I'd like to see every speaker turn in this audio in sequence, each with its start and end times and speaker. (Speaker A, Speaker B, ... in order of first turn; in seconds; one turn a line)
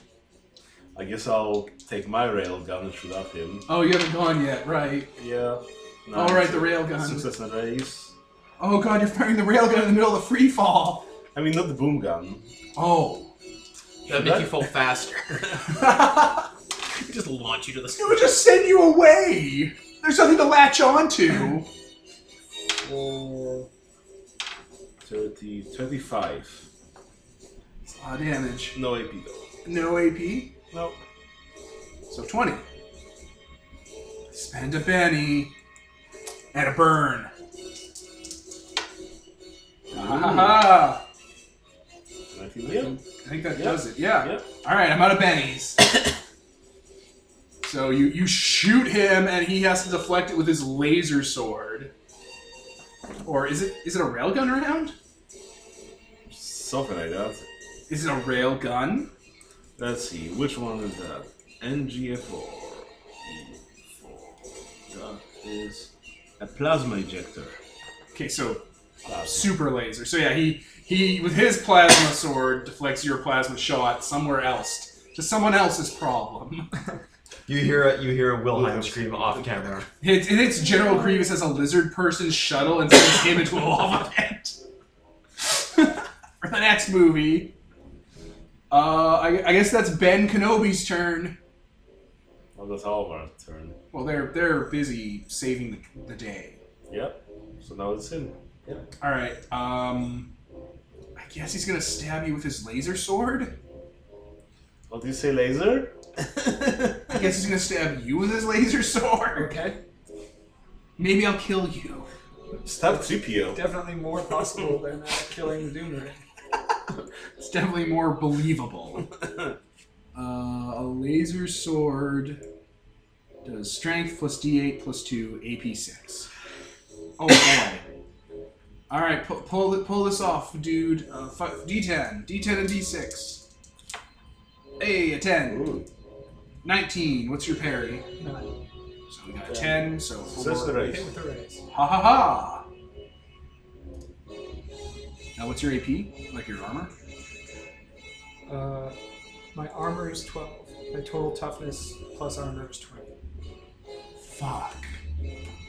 Speaker A: 0.9-3.7
Speaker B: 3.7-5.1
Speaker A: 5.2-8.1
Speaker B: 6.1-7.3
Speaker B: 8.6-11.1
Speaker A: 11.3-12.4
Speaker B: 12.8-13.3
Speaker A: 14.1-14.7
Speaker C: 14.1-15.6
Speaker B: 15.7-16.5
Speaker C: 16.9-18.4
Speaker B: 18.0-21.7
Speaker A: 22.8-23.7
Speaker A: 25.0-26.6
Speaker B: 27.8-28.8
Speaker A: 28.7-29.5
Speaker B: 29.6-30.5
Speaker A: 30.7-31.0
Speaker B: 32.1-32.6
Speaker B: 34.3-35.5
Speaker B: 36.5-37.3
Speaker A: 39.9-40.7
Speaker B: 39.9-41.0
Speaker A: 42.3-43.0
Speaker B: 42.7-45.9
Speaker A: 43.5-44.5
Speaker B: 47.6-51.9
Speaker B: 53.2-55.0
Speaker A: 56.3-57.5
Speaker B: 57.9-59.1
Speaker A: 59.8-67.6
Speaker B: 68.1-68.6
Speaker A: 69.0-69.6
Speaker B: 69.2-76.7
Speaker D: 77.5-79.9
Speaker A: 78.5-79.8
Speaker B: 80.0-84.6
Speaker B: 85.4-87.5
Speaker B: 88.7-91.4
Speaker A: 92.5-93.8
Speaker B: 93.9-96.6
Speaker A: 96.9-98.8
Speaker B: 99.0-100.3
Speaker B: 101.2-103.5
Speaker A: 104.9-107.3
Speaker B: 107.1-109.5
Speaker E: 109.3-109.8
Speaker B: 111.0-112.1
Speaker A: 112.6-113.6
Speaker E: 112.8-116.2
Speaker B: 117.4-119.1
Speaker B: 120.2-122.4
Speaker B: 123.4-126.3
Speaker B: 127.2-127.8
Speaker B: 128.9-133.4
Speaker B: 134.8-135.7
Speaker A: 135.5-135.9
Speaker B: 136.6-138.1
Speaker E: 138.2-138.5
Speaker B: 139.1-140.9
Speaker A: 139.5-141.1
Speaker E: 140.7-141.7
Speaker B: 141.7-142.7
Speaker B: 145.4-146.9
Speaker E: 148.5-149.0
Speaker E: 149.5-153.1
Speaker B: 154.2-155.0